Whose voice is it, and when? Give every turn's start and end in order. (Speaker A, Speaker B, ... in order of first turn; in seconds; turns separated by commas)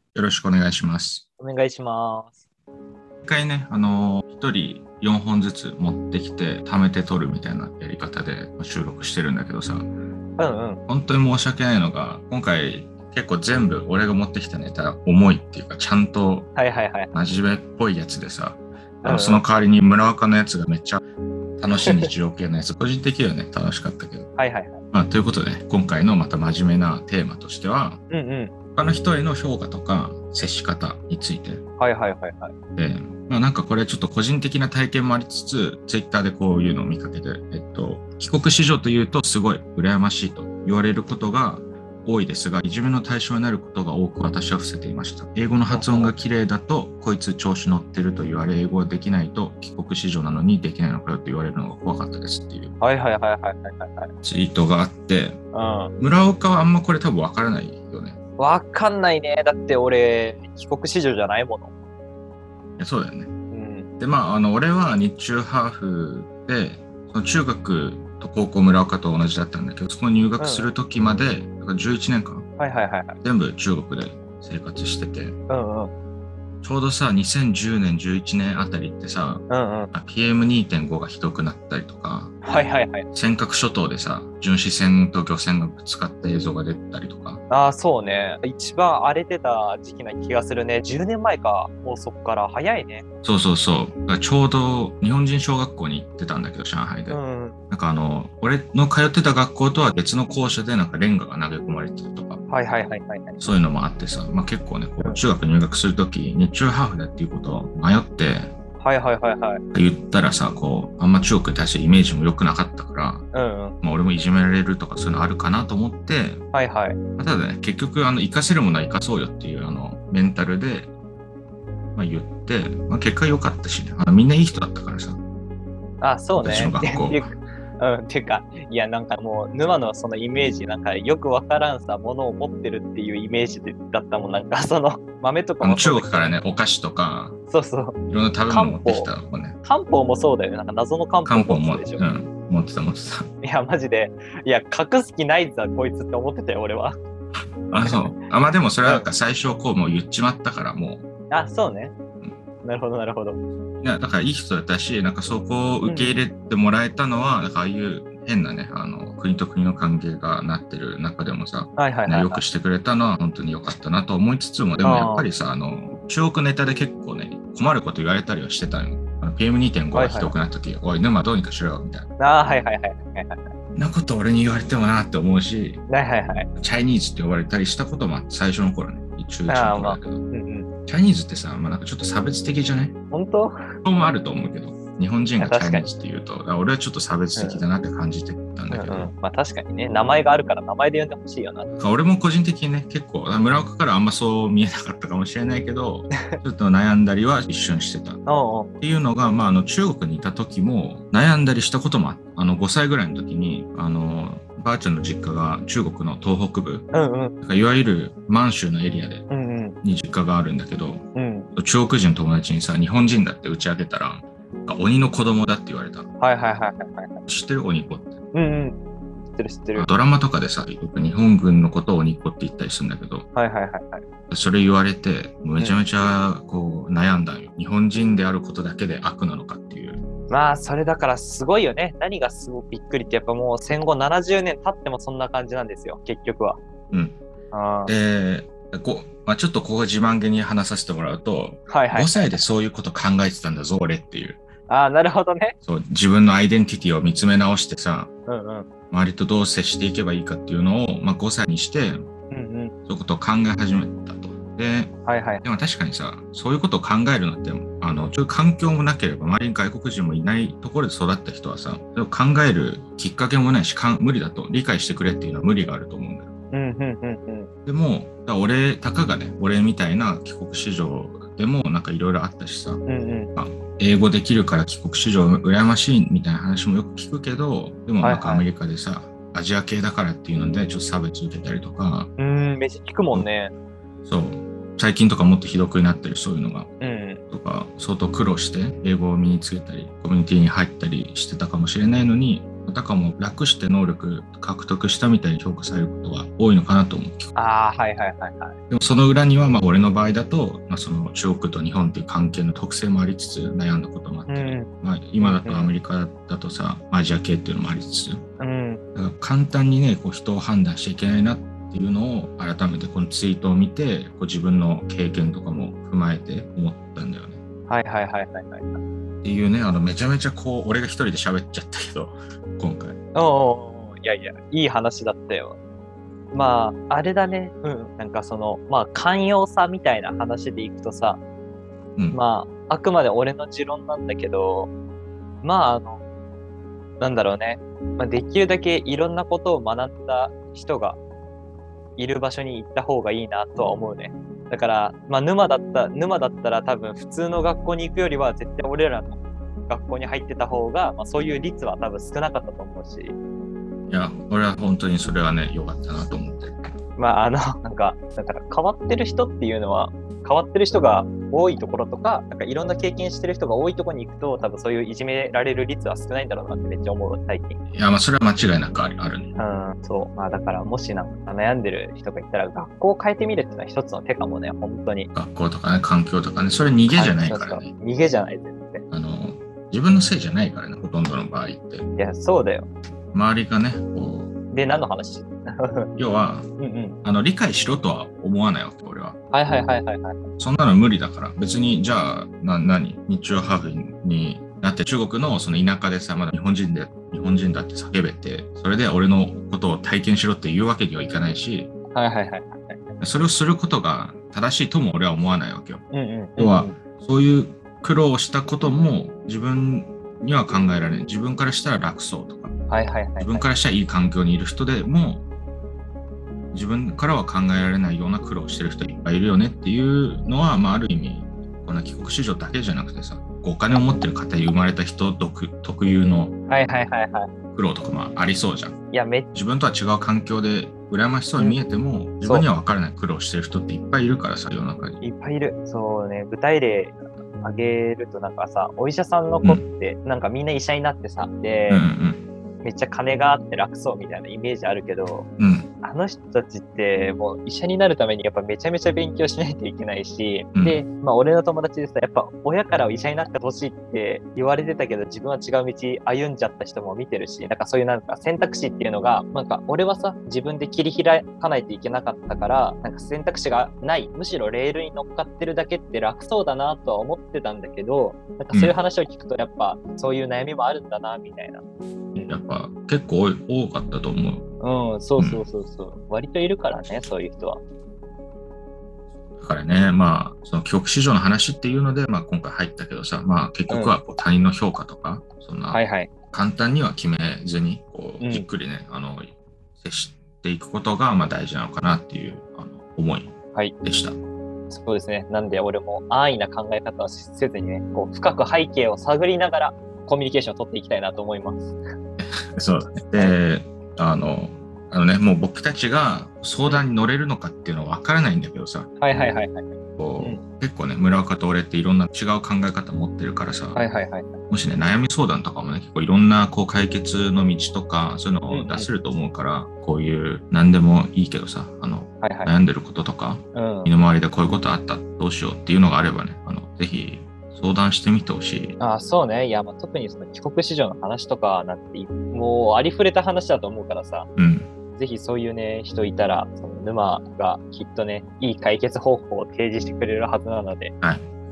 Speaker A: 0.1-1.2, Speaker B: 1.4-2.4, Speaker A: 3.2-9.9, Speaker B: 10.4-10.8, Speaker A: 10.9-16.5, Speaker B: 16.6-17.1, Speaker A: 17.1-21.0, Speaker B: 19.0-19.4, Speaker A: 21.6-24.3, Speaker B: 24.4-24.8, Speaker A: 24.9-28.0, Speaker B: 28.1-28.5, Speaker A: 28.7-31.6, Speaker B: 31.8-32.5, Speaker A: 32.8-52.7, Speaker B: 45.7-46.1, Speaker B: 52.8-54.1, Speaker A: 54.2-55.4, Speaker B: 55.5-55.9, Speaker A: 56.0-58.2, Speaker B: 58.4-61.7, Speaker A: 62.8-63.3, Speaker B: 63.5-63.9, Speaker A: 64.0-72.4, Speaker B: 70.4-70.7, Speaker B: 72.6-73.2, Speaker A: 73.2-75.4, Speaker B: 75.5-75.9, Speaker A: 76.6-82.4, Speaker B: 79.5-79.9, Speaker B: 82.4-83.1, Speaker A: 83.1-87.4, Speaker B: 87.5-93.0, Speaker A: 93.2-97.2, Speaker B: 97.1-97.6, Speaker A: 97.7-102.4, Speaker B: 102.5-103.4, Speaker A: 103.4-108.5, Speaker B: 108.8-109.6, Speaker A: 109.7-113.2, Speaker B: 113.3-113.8, Speaker A: 113.8-116.4, Speaker B: 116.5-117.0, Speaker A: 117.2-120.9, Speaker A: 122.0-125.2, Speaker B: 126.0-136.3, Speaker A: 126.4-127.3, Speaker A: 135.6-137.3, Speaker B: 137.5-139.1, Speaker A: 138.1-139.6, Speaker B: 139.6-142.0, Speaker A: 141.2-143.3, Speaker B: 143.4-147.0, Speaker A: 147.7-151.0, Speaker B: 147.8-148.1, Speaker B: 151.3-151.9, Speaker B: 152.6-153.4, Speaker A: 153.8-172.1, Speaker B: 155.8-156.2, Speaker B: 161.8-162.4, Speaker B: 164.8-165.3, Speaker B: 169.9-170.3, Speaker B: 172.2-173.5, Speaker A: 173.8-175.8, Speaker B: 175.9-176.5, Speaker A: 176.6-180.2, Speaker B: 179.5-180.7, Speaker A: 180.8-182.9, Speaker B: 183.1-183.5, Speaker A: 183.8-189.1, Speaker B: 185.4-185.9, Speaker B: 187.3-187.6, Speaker B: 188.7-191.7, Speaker A: 191.8-198.2, Speaker B: 198.2-198.7, Speaker A: 198.8-206.9, Speaker B: 206.9-207.3, Speaker A: 207.4-209.2, Speaker B: 209.3-209.8, Speaker A: 209.8-211.0, Speaker B: 211.1-211.5, Speaker A: 211.6-216.1, Speaker B: 216.2-217.2, Speaker A: 217.3-218.2, Speaker B: 218.3-218.8, Speaker B: 219.3-219.9, Speaker A: 219.7-223.3, Speaker B: 223.3-224.0, Speaker A: 224.3-230.0, Speaker B: 230.3-236.6, Speaker A: 236.9-237.2, Speaker B: 237.5-237.9, Speaker A: 237.8-244.4, Speaker B: 241.7-242.4, Speaker B: 244.7-245.5, Speaker A: 245.6-248.1, Speaker B: 248.3-248.7, Speaker A: 248.9-252.1, Speaker B: 252.3-252.7, Speaker A: 252.9-266.3, Speaker B: 255.1-255.4, Speaker B: 266.5-267.5, Speaker A: 267.6-272.8, Speaker B: 272.9-273.3, Speaker A: 273.4-282.1, Speaker B: 278.0-278.4, Speaker B: 282.2-283.5, Speaker A: 284.1-286.7, Speaker B: 286.8-287.2, Speaker A: 287.3-297.3, Speaker B: 297.3-298.5, Speaker A: 298.7-308.2, Speaker B: 304.3-304.7, Speaker B: 305.2-305.7, Speaker B: 308.4-308.8, Speaker A: 308.9-317.4, Speaker B: 317.7-318.8, Speaker A: 319.2-323.0, Speaker B: 323.1-325.6, Speaker B: 326.3-331.2, Speaker B: 332.1-334.7, Speaker B: 335.4-336.0, Speaker B: 337.0-341.0, Speaker B: 342.0-353.1, Speaker A: 353.9-356.6, Speaker B: 357.0-367.6, Speaker A: 367.7-369.3, Speaker B: 369.4-375.1, Speaker A: 375.1-377.7, Speaker B: 376.9-378.8, Speaker A: 378.9-381.9, Speaker B: 382.0-382.7, Speaker A: 383.1-384.3, Speaker B: 384.5-385.9, Speaker A: 386.0-386.5, Speaker B: 386.6-387.0, Speaker A: 387.0-389.2, Speaker B: 389.3-390.2, Speaker A: 390.4-401.7, Speaker B: 401.9-402.8, Speaker A: 403.0-405.8, Speaker B: 405.9-406.8, Speaker A: 406.4-412.5, Speaker B: 412.7-413.4, Speaker A: 413.2-415.2, Speaker A: 416.5-426.4, Speaker B: 426.5-427.3, Speaker A: 427.5-428.8, Speaker B: 428.9-429.3, Speaker A: 429.3-435.0, Speaker B: 431.4-431.6, Speaker B: 432.2-432.5, Speaker B: 435.0-441.9, Speaker A: 441.7-442.2, Speaker B: 442.6-445.3, Speaker A: 445.4-445.7, Speaker B: 445.8-471.6, Speaker A: 450.5-450.8, Speaker A: 472.3-474.4, Speaker B: 474.6-477.6, Speaker A: 475.2-475.4, Speaker A: 479.4-485.8, Speaker B: 483.7-484.0, Speaker B: 485.7-486.1, Speaker A: 486.3-493.3, Speaker B: 488.2-488.5, Speaker A: 493.8-494.1, Speaker B: 494.7-501.8, Speaker A: 502.2-508.9, Speaker B: 509.0-510.4, Speaker A: 510.0-513.8, Speaker B: 513.7-514.4, Speaker A: 514.5-528.8, Speaker B: 518.5-518.9, Speaker B: 522.2-522.5, Speaker B: 523.5-523.9, Speaker B: 528.8-534.3, Speaker A: 534.4-534.7, Speaker B: 535.0-540.9